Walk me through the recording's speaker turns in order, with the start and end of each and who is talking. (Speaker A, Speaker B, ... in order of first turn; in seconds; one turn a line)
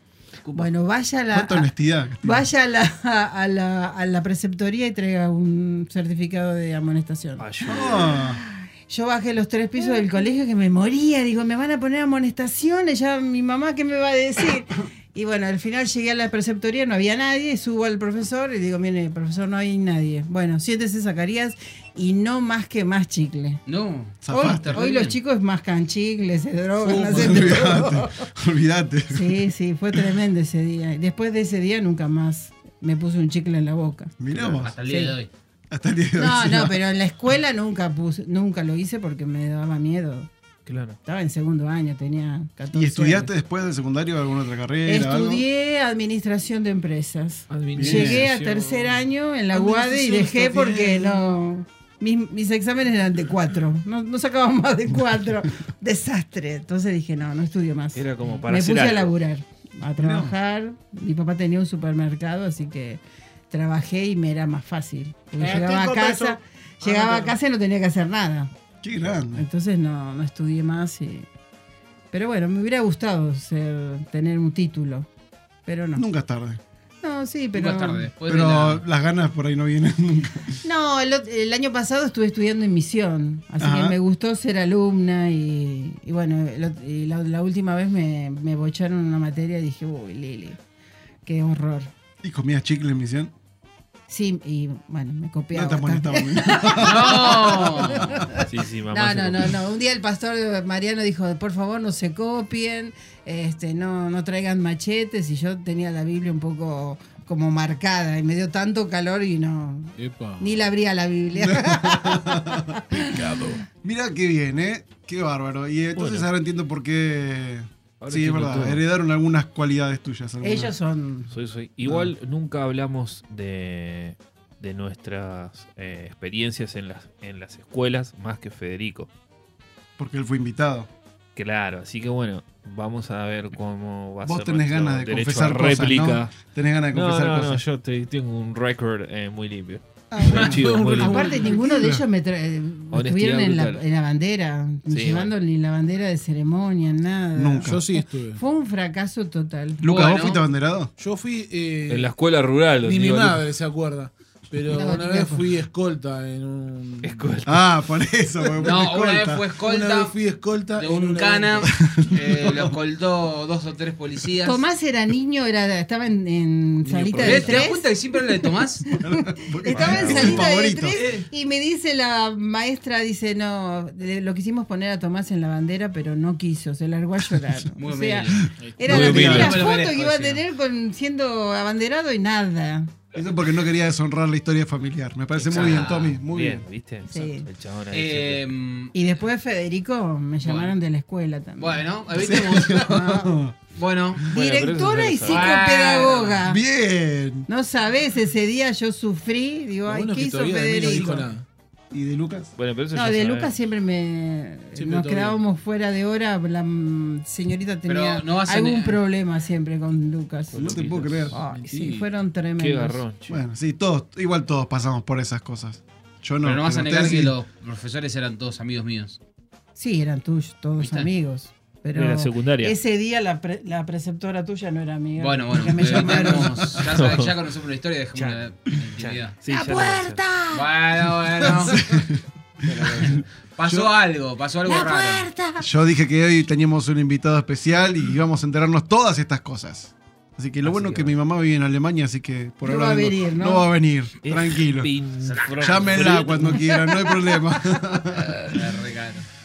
Speaker A: 0.4-0.7
Speaker B: 0.5-23.6
Speaker C: 1.3-2.5
Speaker A: 7.4-8.2
Speaker C: 7.6-8.4
Speaker D: 23.6-25.2
Speaker C: 24.2-24.8
Speaker B: 24.3-28.1
Speaker C: 26.9-29.5
Speaker E: 26.9-27.5
Speaker B: 29.1-34.1
Speaker C: 34.2-34.7
Speaker D: 34.3-35.3
Speaker B: 34.9-35.1
Speaker C: 35.7-36.8
Speaker B: 36.1-40.3
Speaker A: 40.6-41.0
Speaker B: 41.0-43.3
Speaker C: 42.7-45.4
Speaker B: 44.8-68.5
Speaker A: 47.5-49.0
Speaker C: 47.7-48.2
Speaker E: 49.5-51.3
Speaker A: 57.9-59.1
Speaker C: 60.0-60.3
Speaker E: 65.4-67.3
Speaker C: 68.8-69.5
Speaker B: 69.3-71.3
Speaker B: 72.1-75.1
Speaker B: 75.7-76.0
Speaker C: 76.0-76.6
Speaker B: 77.0-78.1
Speaker D: 77.5-78.8
Speaker C: 78.3-80.6
Speaker B: 80.6-90.6
Speaker C: 83.6-84.0
Speaker B: 91.2-91.9
Speaker C: 92.2-93.3
Speaker B: 94.1-113.1
Speaker C: 95.5-97.8
Speaker D: 96.8-98.1
Speaker A: 98.4-99.6
Speaker E: 110.0-110.5
Speaker C: 111.3-112.7
Speaker E: 113.1-113.6
Speaker C: 113.7-120.7
Speaker A: 116.0-116.3
Speaker A: 118.0-118.8
Speaker B: 120.4-121.3
Speaker A: 121.3-129.1
Speaker C: 121.8-122.1
Speaker C: 130.0-130.9
Speaker A: 131.3-136.3
Speaker C: 134.2-137.6
Speaker A: 136.9-141.4
Speaker C: 140.1-140.8
Speaker E: 140.2-141.7
Speaker B: 140.9-149.8
Speaker C: 141.5-142.0
Speaker A: 142.9-143.8
Speaker A: 144.9-145.3
Speaker C: 147.3-147.8
Speaker E: 147.6-148.4
Speaker C: 149.8-150.9
Speaker D: 149.8-150.4
Speaker E: 151.0-152.1
Speaker A: 151.9-153.4
Speaker E: 152.8-157.4
Speaker B: 154.7-155.5
Speaker A: 157.0-157.6
Speaker C: 157.4-159.4
Speaker D: 158.6-160.2
Speaker E: 159.6-161.7
Speaker D: 160.8-164.6
Speaker C: 161.7-162.7
Speaker B: 164.4-167.9
Speaker E: 166.8-167.6
Speaker D: 167.2-168.8
Speaker C: 169.0-171.1
Speaker B: 169.2-182.9
Speaker D: 170.9-171.2
Speaker D: 177.8-178.5
Speaker E: 178.6-179.4
Speaker A: 178.8-179.7
Speaker C: 179.0-179.5
Speaker D: 179.0-180.4
Speaker C: 183.1-186.7
Speaker A: 185.4-188.4
Speaker D: 185.5-186.2
Speaker B: 187.1-187.5
Speaker D: 187.9-188.9
Speaker B: 188.9-191.8
Speaker D: 190.4-190.7
Speaker D: 191.6-192.9
Speaker C: 192.1-193.5
Speaker B: 192.6-193.3
Speaker D: 193.7-194.2
Speaker A: 194.3-195.5
Speaker B: 194.3-196.6
Speaker D: 195.2-196.4
Speaker C: 196.4-197.5
Speaker B: 197.5-201.3
Speaker E: 199.8-201.4
Speaker C: 201.9-202.5
Speaker A: 202.6-203.6
Speaker B: 202.9-213.0
Speaker E: 204.7-205.4
Speaker D: 207.9-209.0
Speaker A: 210.5-211.2
Speaker C: 210.5-211.4
Speaker E: 211.3-212.1
Speaker A: 212.6-213.4
Speaker C: 213.3-217.3
Speaker D: 216.4-219.2
Speaker B: 219.8-226.6
Speaker D: 220.8-221.1
Speaker A: 221.9-222.8
Speaker D: 225.2-229.3
Speaker C: 225.8-226.7
Speaker A: 226.9-227.3
Speaker A: 228.1-228.4
Speaker A: 229.0-230.2
Speaker B: 229.5-230.7
Speaker D: 230.5-231.8
Speaker C: 231.4-232.2
Speaker D: 233.6-235.3
Speaker C: 233.7-233.9
Speaker B: 234.7-235.7
Speaker C: 235.6-244.9
Speaker A: 240.6-241.1
Speaker B: 242.6-243.7
Speaker A: 244.2-246.7
Speaker D: 245.3-246.2
Speaker C: 245.5-248.6
Speaker B: 246.4-247.4
Speaker D: 248.5-249.2